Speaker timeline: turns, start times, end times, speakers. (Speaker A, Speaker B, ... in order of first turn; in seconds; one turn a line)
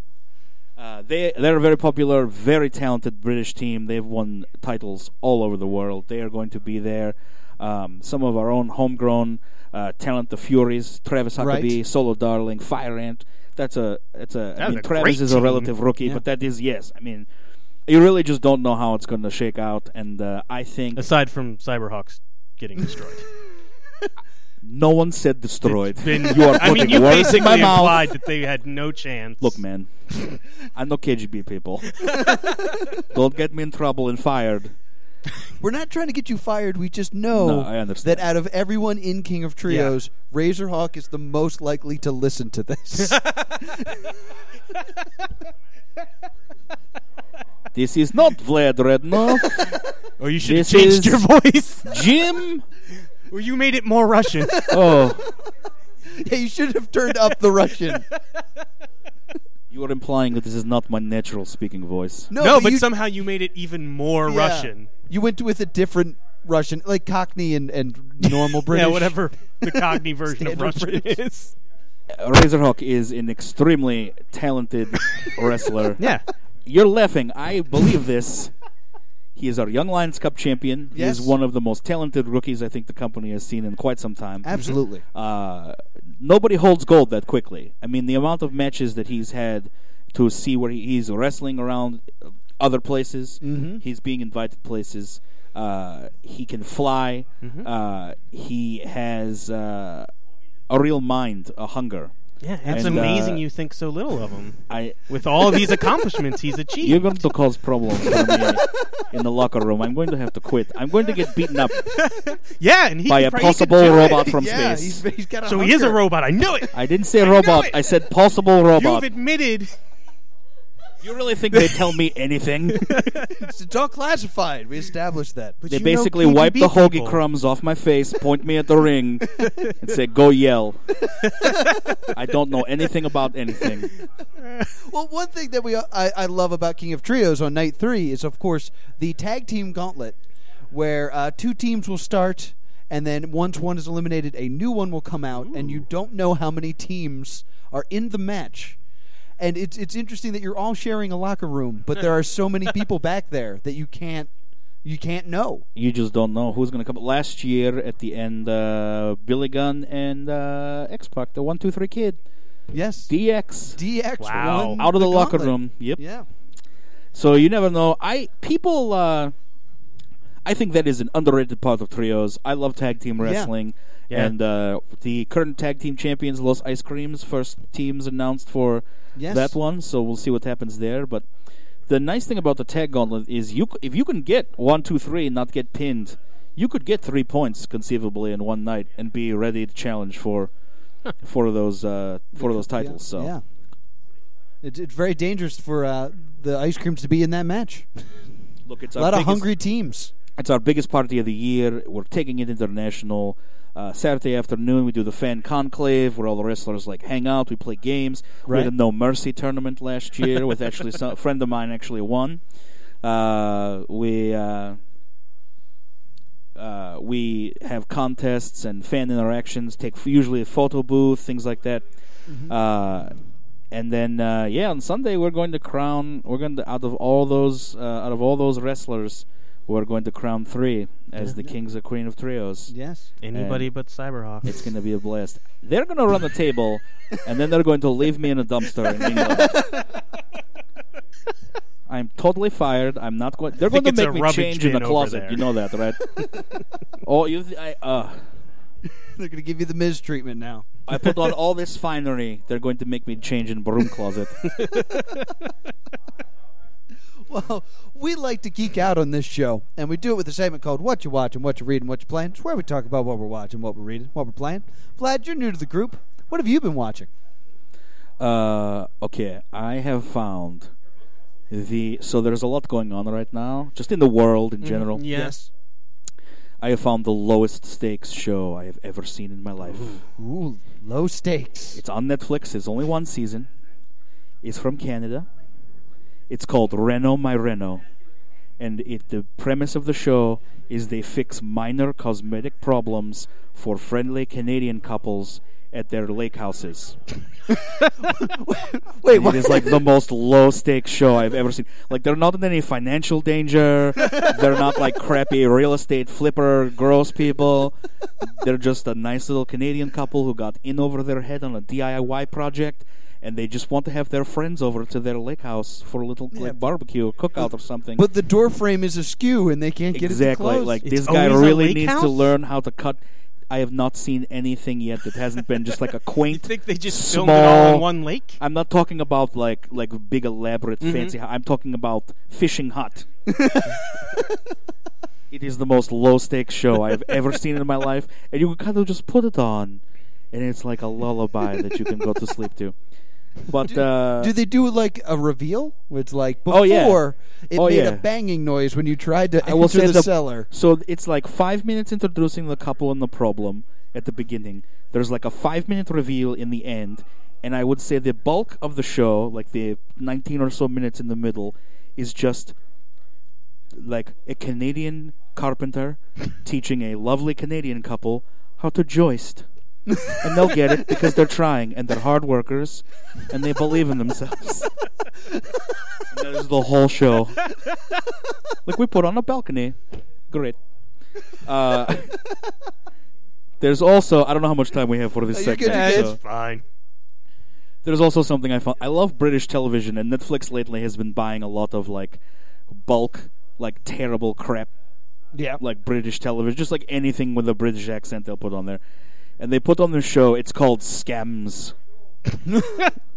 Speaker A: 0.8-17.3
Speaker B: 11.4-11.8
Speaker C: 14.6-15.7
Speaker A: 17.9-21.1
Speaker C: 21.0-23.3
Speaker A: 24.6-28.1
Speaker C: 25.6-29.6
Speaker B: 26.7-27.5
Speaker A: 29.4-29.9
Speaker A: 30.7-32.3
Speaker A: 33.0-34.7
Speaker B: 35.6-44.0
Speaker A: 37.3-38.3
Speaker C: 39.7-40.0
Speaker C: 43.1-43.7
Speaker A: 47.7-49.8
Speaker C: 49.4-52.0
Speaker A: 50.4-51.2
Speaker A: 51.9-52.6
Speaker C: 53.3-54.7
Speaker B: 54.4-55.4
Speaker A: 54.6-55.3
Speaker B: 56.1-58.1
Speaker A: 59.7-62.3
Speaker B: 62.3-62.9
Speaker C: 62.4-64.9
Speaker B: 64.3-71.2
Speaker C: 68.2-71.5
Speaker A: 72.1-76.1
Speaker C: 76.0-76.3
Speaker A: 76.7-78.5
Speaker A: 79.3-100.1
Speaker B: 80.9-81.4
Speaker B: 84.4-85.0
Speaker B: 93.4-93.8
Speaker C: 97.4-97.7
Speaker A: 100.7-102.1
Speaker C: 102.4-107.2
Speaker B: 102.6-103.3
Speaker A: 102.7-103.4
Speaker A: 104.7-105.1
Speaker A: 106.8-111.9
Speaker B: 108.3-109.0
Speaker C: 111.8-114.3
Speaker A: 113.1-115.0
Speaker B: 113.9-116.0
Speaker C: 115.5-117.9
Speaker A: 116.7-119.1
Speaker C: 118.7-119.8
Speaker A: 121.0-123.0
Speaker C: 121.5-122.0
Speaker C: 122.7-123.5
Speaker B: 123.2-125.6
Speaker C: 125.6-127.2
Speaker A: 125.7-130.9
Speaker C: 131.3-131.9
Speaker B: 131.4-131.8
Speaker A: 132.1-133.9
Speaker B: 134.8-140.2
Speaker B: 140.7-148.8
Speaker B: 149.4-154.3
Speaker B: 154.8-155.7
Speaker A: 155.8-162.2
Speaker B: 162.7-163.1
Speaker A: 163.1-163.8
Speaker B: 163.7-166.3
Speaker C: 164.2-164.8
Speaker A: 164.4-166.0
Speaker A: 167.1-169.3
Speaker A: 170.4-181.3
Speaker B: 173.2-173.5
Speaker B: 179.2-179.6
Speaker A: 181.9-190.5
Speaker A: 191.2-193.3
Speaker B: 192.4-193.4
Speaker B: 194.6-198.0
Speaker A: 198.7-199.5
Speaker B: 198.9-200.1
Speaker A: 200.4-212.4
Speaker B: 208.5-208.7
Speaker A: 213.0-214.8
Speaker A: 216.6-221.8
Speaker B: 222.3-222.5
Speaker A: 222.5-223.2
Speaker A: 223.7-232.7
Speaker B: 232.7-233.1
Speaker C: 233.2-234.7
Speaker A: 233.3-233.7
Speaker A: 234.4-239.7
Speaker B: 239.5-239.8
Speaker A: 241.9-246.2
Speaker C: 243.6-245.5
Speaker A: 247.0-248.2
Speaker B: 248.9-250.7
Speaker A: 250.9-254.5
Speaker C: 254.5-255.5
Speaker B: 257.2-267.1
Speaker A: 268.2-270.7
Speaker A: 271.5-275.1
Speaker C: 274.6-275.4
Speaker B: 275.1-275.5
Speaker A: 276.6-280.0
Speaker B: 279.9-281.8
Speaker A: 281.8-283.5
Speaker A: 284.4-285.3
Speaker A: 286.3-287.8
Speaker A: 288.6-297.0
Speaker B: 298.0-299.8
Speaker A: 299.1-318.1
Speaker B: 316.3-316.6
Speaker B: 318.0-320.8
Speaker A: 319.9-327.9
Speaker C: 320.9-322.3
Speaker C: 326.3-328.4
Speaker A: 328.4-333.1
Speaker C: 330.8-331.1
Speaker B: 333.3-334.2
Speaker A: 335.3-342.8
Speaker A: 343.4-344.3
Speaker B: 343.6-350.5
Speaker A: 346.5-348.1
Speaker A: 349.4-362.6
Speaker A: 363.7-369.5
Speaker A: 370.1-374.8
Speaker A: 376.1-377.5
Speaker A: 378.6-379.8
Speaker A: 380.3-380.6
Speaker A: 381.3-382.2
Speaker A: 383.6-386.2
Speaker B: 385.3-386.2
Speaker C: 385.6-386.6
Speaker A: 387.9-394.7
Speaker B: 395.3-395.6
Speaker A: 395.6-398.8
Speaker A: 399.4-401.8
Speaker B: 402.4-402.9